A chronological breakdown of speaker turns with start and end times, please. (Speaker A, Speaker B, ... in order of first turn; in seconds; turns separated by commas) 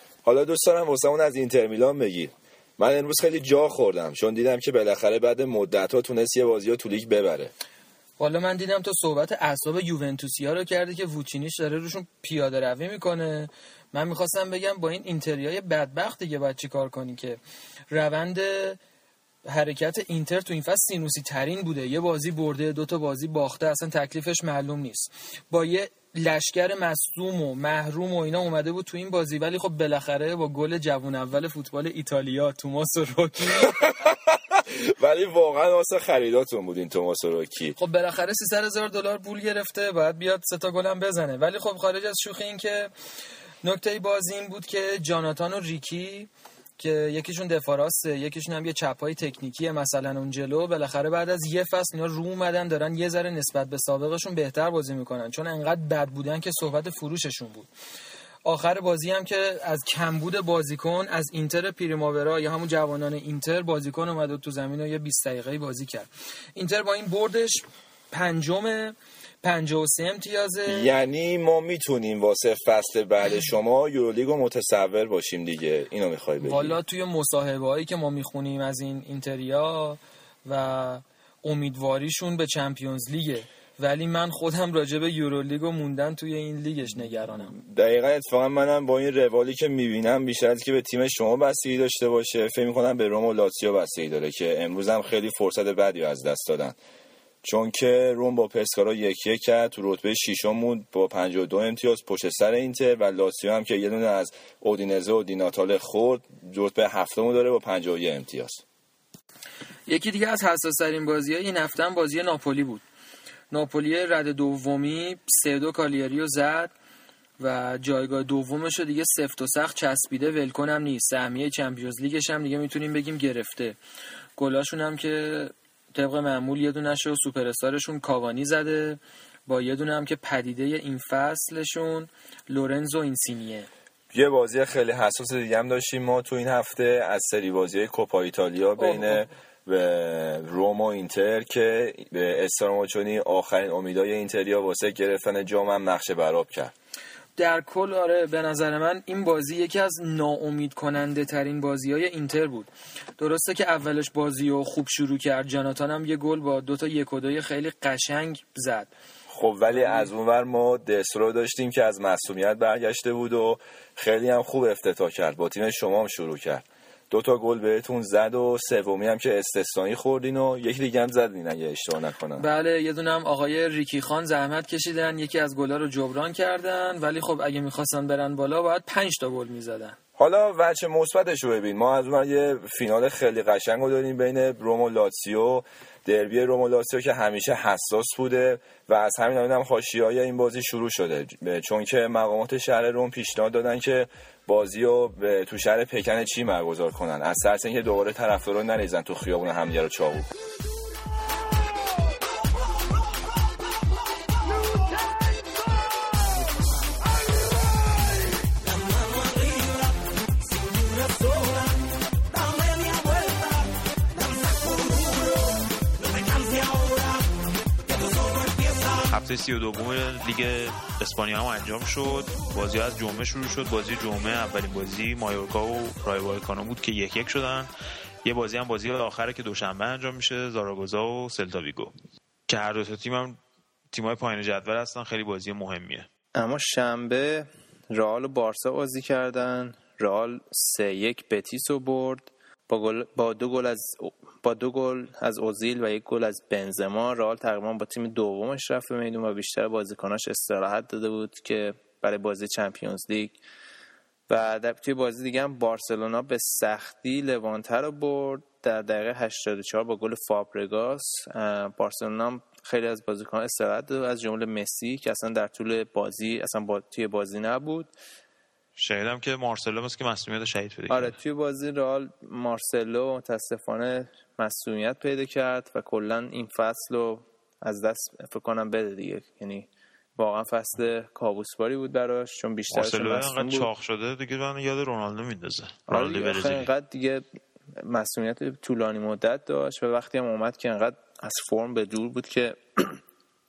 Speaker A: 0.2-7.5, Speaker B: 8.2-18.8, Speaker B: 19.4-33.7, Speaker A: 33.5-37.8, Speaker B: 37.8-42.9, Speaker B: 43.6-57.7, Speaker B: 58.4-70.9, Speaker A: 70.7-76.8, Speaker B: 76.4-87.5, Speaker A: 87.6-96.8, Speaker A: 97.4-108.6, Speaker B: 109.9-112.8, Speaker B: 113.5-116.7, Speaker B: 117.4-123.8, Speaker B: 124.4-133.7, Speaker A: 134.1-146.7, Speaker B: 138.8-139.2, Speaker B: 147.4-158.9, Speaker A: 159.3-172.5, Speaker B: 159.7-160.1, Speaker B: 172.4-179.9, Speaker A: 180.2-200.3, Speaker C: 219.0-227.7, Speaker C: 228.2-231.9, Speaker C: 232.5-233.4, Speaker C: 233.9-236.1, Speaker D: 236.3-253.4, Speaker D: 254.3-267.9, Speaker C: 268.8-271.2, Speaker D: 270.9-283.7, Speaker C: 282.7-286.7, Speaker D: 285.9-287.2, Speaker D: 287.8-293.0